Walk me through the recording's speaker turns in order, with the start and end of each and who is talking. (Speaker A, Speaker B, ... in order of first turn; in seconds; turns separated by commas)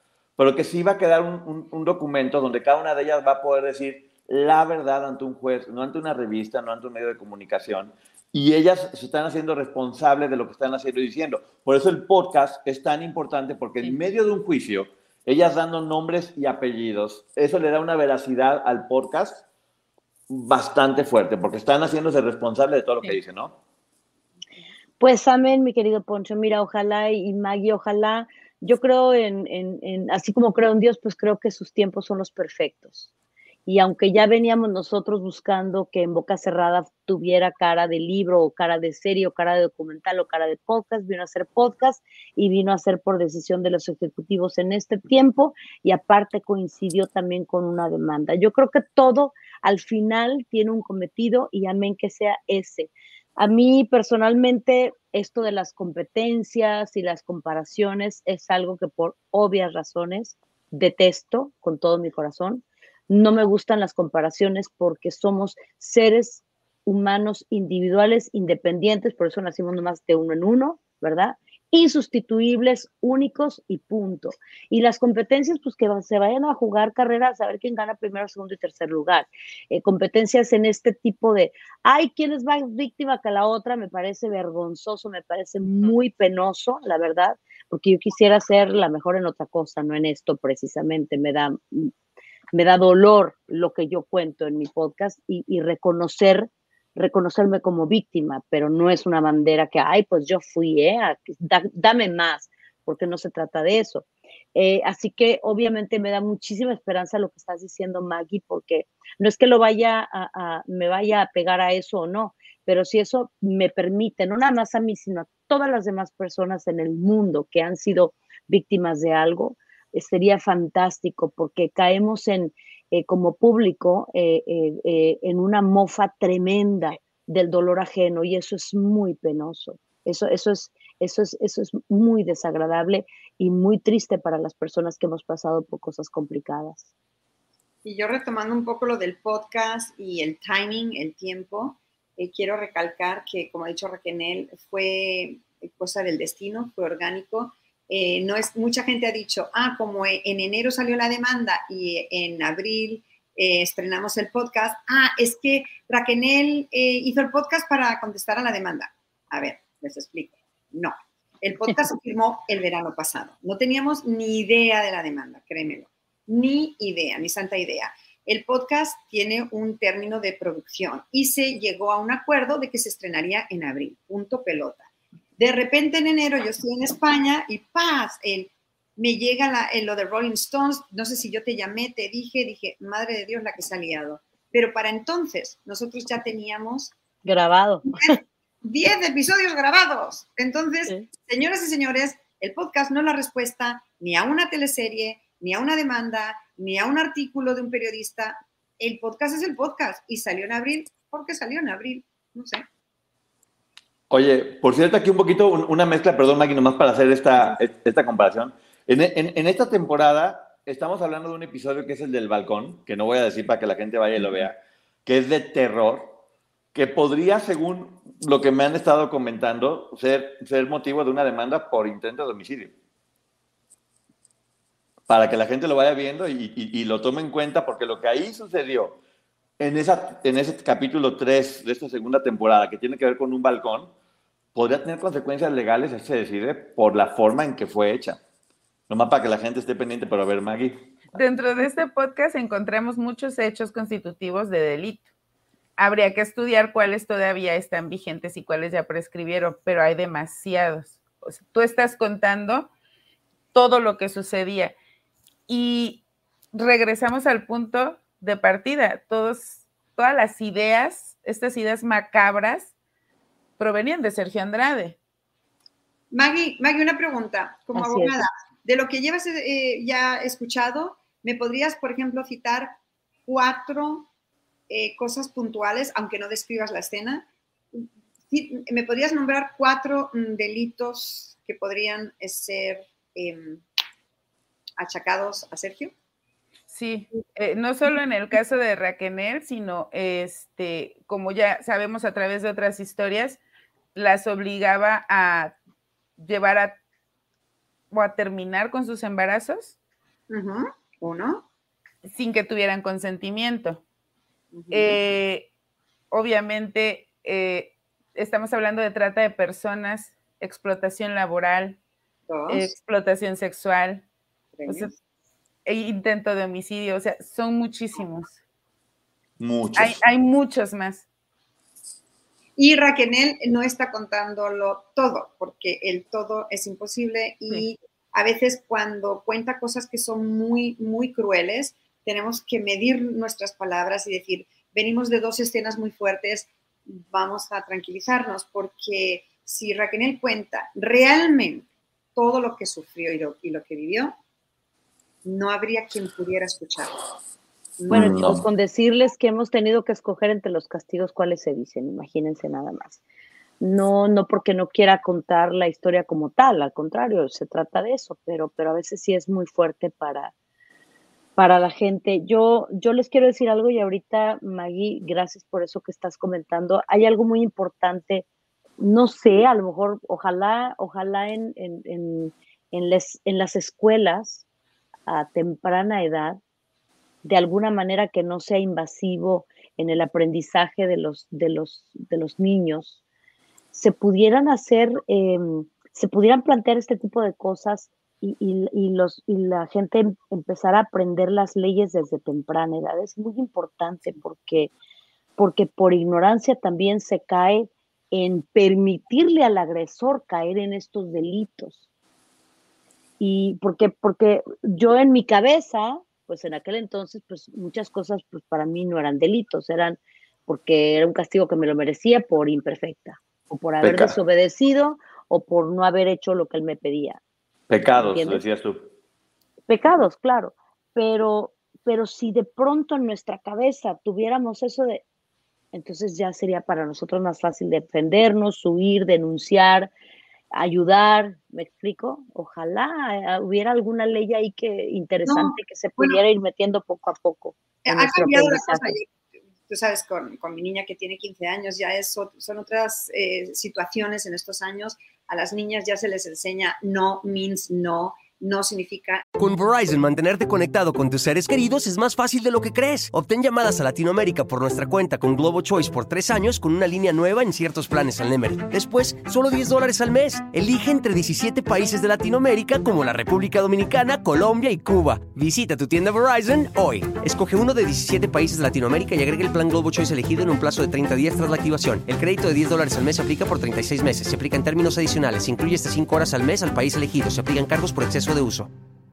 Speaker A: 0.4-19.4, Speaker A: 20.3-23.5, Speaker B: 25.0-33.1, Speaker B: 33.7-91.9, Speaker B: 92.5-136.9, Speaker C: 137.8-174.9, Speaker C: 175.4-186.9, Speaker B: 187.2-188.2, Speaker C: 187.9-202.6, Speaker A: 204.1-216.2, Speaker A: 216.7-222.7, Speaker A: 225.1-229.0, Speaker A: 229.6-233.9, Speaker A: 234.6-238.2, Speaker A: 238.9-241.0, Speaker D: 241.1-245.1, Speaker D: 245.8-252.7, Speaker D: 253.5-254.8, Speaker D: 255.5-256.0, Speaker D: 256.5-262.7, Speaker D: 263.6-265.0, Speaker C: 266.1-272.8, Speaker B: 267.8-268.2, Speaker C: 273.3-274.1, Speaker C: 274.7-283.6, Speaker C: 284.8-285.9, Speaker D: 286.7-293.4, Speaker D: 293.9-295.6, Speaker D: 296.2-296.8, Speaker D: 297.9-299.8, Speaker C: 300.3-301.4, Speaker D: 302.0-303.8, Speaker C: 304.5-305.0, Speaker D: 304.7-305.5, Speaker D: 306.1-311.8, Speaker C: 312.3-312.7, Speaker D: 312.5-314.1, Speaker C: 314.6-314.9, Speaker D: 315.7-318.4, Speaker A: 319.4-320.0, Speaker D: 319.8-321.1, Speaker C: 322.6-344.1, Speaker C: 345.2-347.0, Speaker C: 347.8-348.1, Speaker A: 347.9-348.4, Speaker B: 347.9-353.0, Speaker B: 353.6-360.3, Speaker B: 361.4-368.3, Speaker B: 368.8-374.4, Speaker B: 375.1-376.4, Speaker B: 377.2-383.0, Speaker B: 383.7-394.7, Speaker B: 395.4-401.8, Speaker B: 403.2-417.2, Speaker A: 413.8-414.2, Speaker A: 417.7-418.9, Speaker B: 417.9-418.4, Speaker B: 419.7-425.0, Speaker B: 425.7-429.9, Speaker B: 430.5-438.9, Speaker C: 435.3-436.2, Speaker C: 437.9-439.1, Speaker C: 439.7-449.2, Speaker E: 449.4-478.7